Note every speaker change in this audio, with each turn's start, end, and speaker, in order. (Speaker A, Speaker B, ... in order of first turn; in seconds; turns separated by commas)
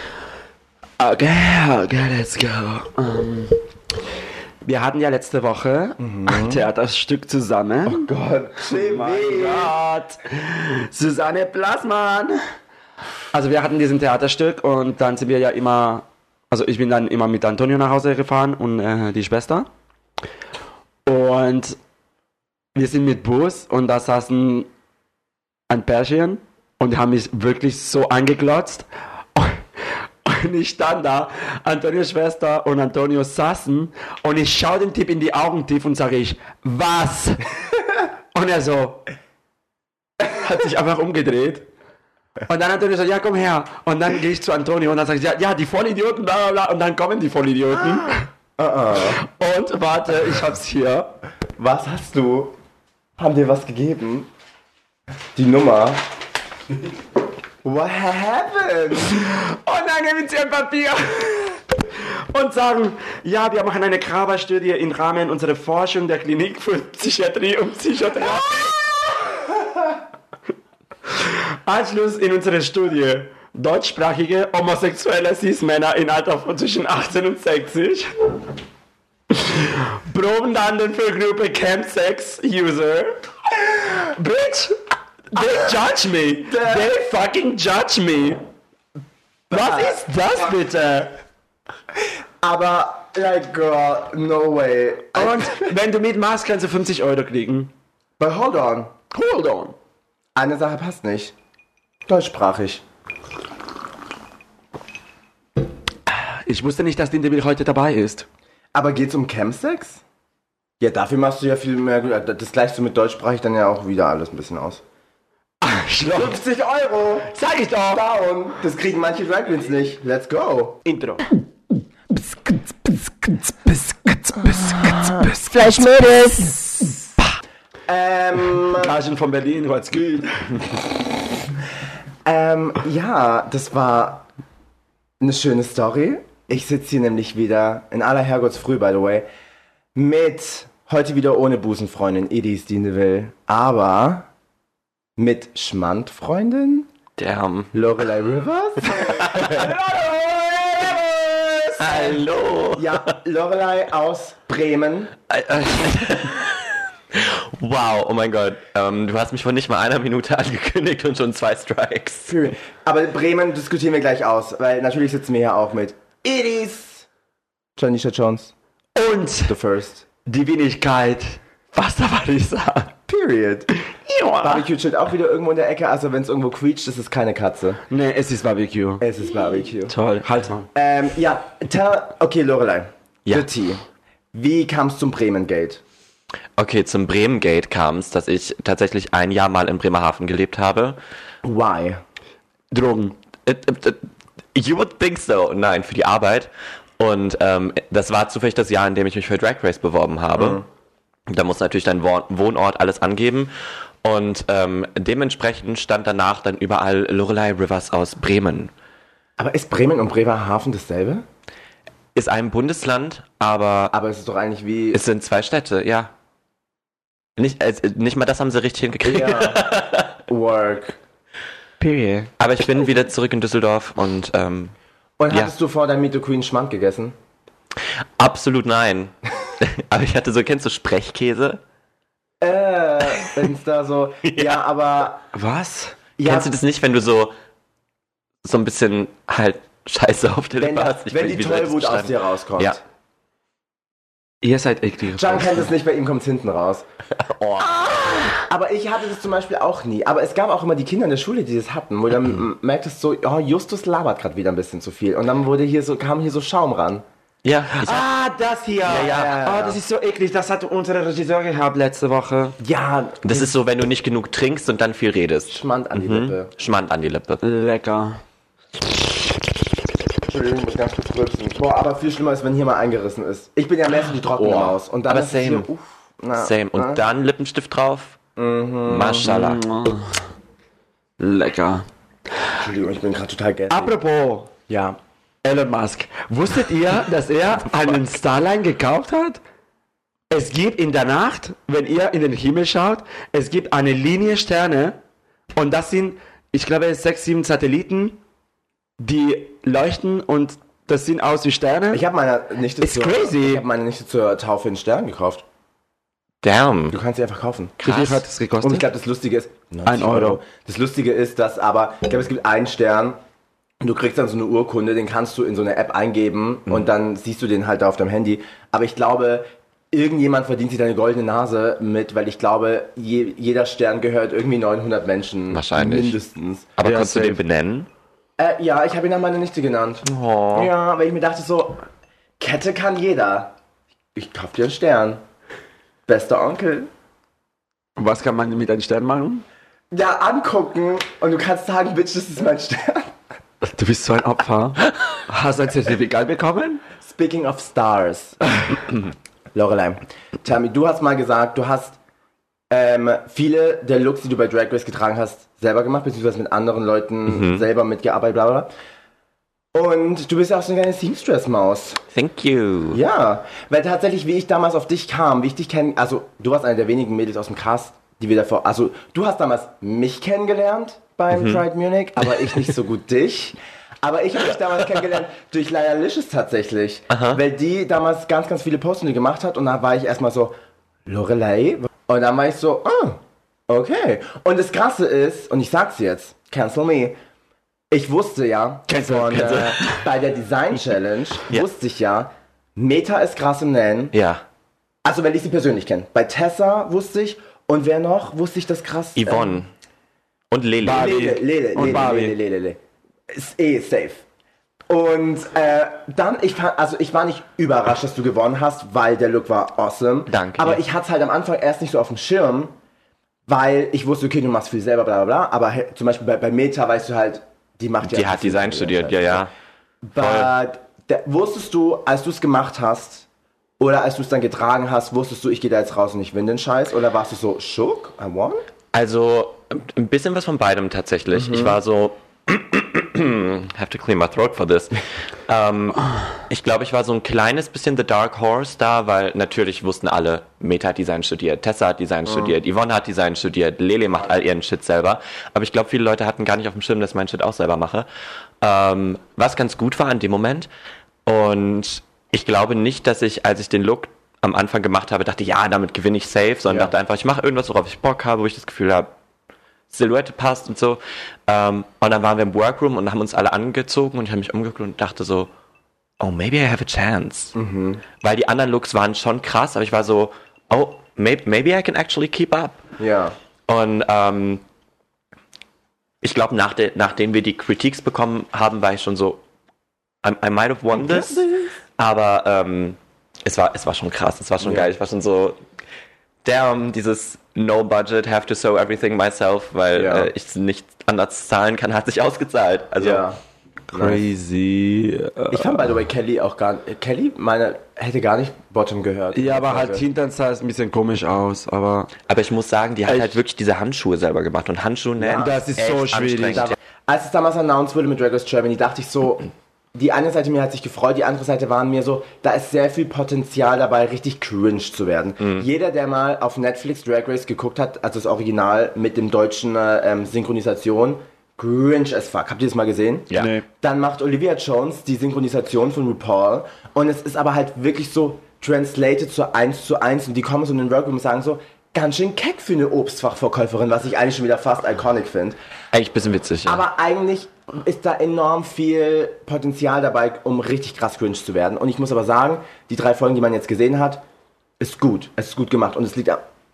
Speaker A: 1.0-3.6, Speaker A: 4.6-8.1, Speaker B: 6.0-6.6, Speaker B: 7.9-9.7, Speaker A: 8.7-12.4, Speaker A: 13.3-19.7, Speaker A: 21.1-21.8, Speaker A: 22.8-24.7, Speaker A: 25.7-29.6, Speaker A: 30.2-37.5, Speaker A: 38.3-39.0, Speaker A: 40.2-41.6, Speaker A: 42.5-48.3, Speaker B: 48.6-49.2, Speaker A: 49.1-51.1, Speaker B: 51.6-52.5, Speaker B: 53.2-54.3, Speaker B: 55.4-56.0, Speaker B: 57.6-59.2, Speaker A: 59.2-61.6, Speaker A: 62.3-68.8, Speaker A: 71.2-78.1, Speaker A: 79.3-83.2, Speaker A: 83.9-84.8, Speaker A: 85.3-88.4, Speaker B: 86.5-86.9, Speaker B: 89.5-90.0, Speaker A: 89.5-91.1, Speaker B: 92.4-95.7, Speaker A: 95.1-97.7, Speaker B: 98.2-98.9, Speaker A: 99.1-99.7, Speaker B: 100.4-101.3, Speaker B: 102.1-102.8, Speaker A: 106.1-108.2, Speaker B: 108.7-110.0, Speaker B: 110.8-114.8, Speaker A: 115.6-116.4, Speaker B: 116.0-117.3, Speaker A: 117.3-118.0, Speaker B: 117.9-120.8, Speaker A: 120.9-121.3, Speaker A: 122.1-127.2, Speaker B: 124.7-125.3, Speaker B: 127.9-128.9, Speaker A: 128.7-130.8, Speaker B: 132.2-134.3, Speaker B: 135.2-139.3, Speaker B: 139.9-144.3, Speaker B: 145.2-146.9, Speaker C: 147.2-147.7, Speaker B: 147.7-149.8, Speaker C: 149.2-149.6, Speaker A: 149.6-151.8, Speaker C: 151.8-153.0, Speaker B: 151.8-152.2, Speaker B: 152.7-155.2, Speaker C: 155.3-162.3, Speaker B: 162.3-167.1, Speaker B: 167.8-168.5, Speaker A: 168.9-169.5, Speaker B: 169.4-170.1, Speaker A: 170.3-172.9, Speaker B: 173.1-173.7, Speaker A: 174.0-174.7, Speaker B: 174.4-177.8, Speaker A: 177.9-179.0, Speaker B: 179.0-180.0, Speaker A: 179.9-180.7, Speaker B: 180.7-185.8, Speaker C: 186.6-191.0, Speaker B: 191.4-192.0, Speaker A: 192.7-193.2, Speaker C: 193.4-200.6, Speaker B: 200.4-200.7, Speaker C: 201.3-203.5, Speaker C: 204.0-208.7, Speaker B: 209.4-211.2, Speaker C: 212.2-213.9, Speaker B: 213.9-215.0, Speaker C: 214.9-216.1, Speaker C: 217.4-220.2, Speaker B: 219.0-219.7, Speaker B: 220.3-221.0, Speaker A: 221.8-222.3, Speaker C: 222.4-224.7, Speaker B: 225.2-227.2, Speaker C: 228.2-231.6, Speaker B: 232.4-235.2, Speaker C: 234.2-234.6, Speaker A: 235.3-236.0, Speaker B: 236.2-236.5, Speaker C: 236.2-237.3, Speaker C: 238.4-242.8, Speaker B: 240.6-242.8, Speaker A: 244.4-245.7, Speaker B: 245.2-246.9, Speaker C: 247.2-248.3, Speaker B: 247.6-257.0, Speaker C: 257.4-258.1, Speaker A: 257.7-262.6, Speaker C: 258.9-259.4, Speaker B: 258.9-259.8, Speaker B: 262.6-263.5, Speaker C: 263.2-267.4, Speaker B: 265.5-266.5, Speaker A: 267.4-268.2, Speaker B: 270.3-277.0, Speaker C: 274.4-275.7, Speaker C: 276.4-278.2, Speaker B: 278.4-279.3, Speaker C: 278.9-279.7, Speaker A: 279.2-280.1, Speaker A: 281.2-281.9, Speaker B: 282.6-283.9, Speaker A: 283.7-284.5, Speaker B: 284.7-285.0, Speaker A: 285.4-289.4, Speaker A: 290.3-295.0, Speaker A: 295.6-298.2, Speaker A: 299.0-302.0, Speaker B: 301.9-305.4, Speaker A: 302.8-303.6, Speaker C: 306.4-307.0, Speaker B: 306.9-307.8, Speaker A: 307.8-308.9, Speaker C: 307.8-308.2, Speaker B: 308.6-313.2, Speaker A: 309.9-310.4, Speaker B: 313.8-326.7, Speaker C: 325.5-326.2, Speaker C: 326.8-327.9, Speaker A: 326.8-327.4, Speaker B: 328.4-331.8, Speaker C: 330.1-330.7, Speaker B: 332.4-333.6, Speaker B: 334.1-335.2, Speaker B: 336.1-336.9, Speaker A: 338.0-339.4, Speaker B: 339.9-343.1, Speaker A: 343.6-346.8, Speaker B: 347.0-348.5, Speaker B: 349.6-352.0, Speaker B: 352.7-358.7, Speaker C: 357.3-357.6, Speaker B: 359.7-362.0, Speaker C: 362.1-363.0, Speaker B: 362.9-380.6, Speaker C: 371.3-371.6, Speaker C: 377.1-377.4, Speaker B: 381.1-387.2, Speaker B: 387.9-394.1, Speaker A: 388.9-390.0, Speaker C: 389.3-389.8, Speaker C: 394.1-394.4, Speaker B: 395.0-399.6, Speaker C: 399.2-399.7, Speaker C: 400.5-401.2, Speaker A: 400.8-402.4, Speaker B: 400.9-402.8, Speaker B: 403.3-404.2, Speaker B: 404.9-412.7, Speaker C: 410.3-410.8, Speaker B: 413.5-419.4, Speaker C: 418.0-419.5, Speaker B: 420.0-423.2, Speaker C: 420.2-420.5, Speaker B: 423.8-428.6, Speaker C: 428.9-448.1, Speaker B: 431.3-431.8, Speaker C: 448.6-450.7, Speaker C: 451.2-459.1, Speaker B: 456.7-456.9, Speaker C: 459.9-465.5, Speaker C: 466.2-467.6, Speaker B: 467.6-468.0, Speaker C: 468.2-472.8, Speaker B: 473.0-473.3, Speaker C: 473.7-474.6, Speaker C: 476.2-479.4, Speaker C: 480.2-485.6, Speaker B: 481.0-481.7, Speaker B: 484.6-484.9, Speaker C: 486.4-493.2, Speaker B: 489.9-490.3, Speaker B: 493.0-493.4, Speaker B: 493.9-494.2, Speaker A: 493.9-495.8, Speaker B: 495.5-500.1, Speaker A: 499.4-502.1, Speaker C: 502.3-506.8, Speaker A: 503.1-503.4, Speaker B: 505.2-505.5, Speaker A: 505.4-506.7, Speaker B: 506.5-535.6, Speaker A: 523.3-523.6, Speaker C: 535.9-536.8, Speaker B: 536.6-544.2, Speaker B: 544.8-546.4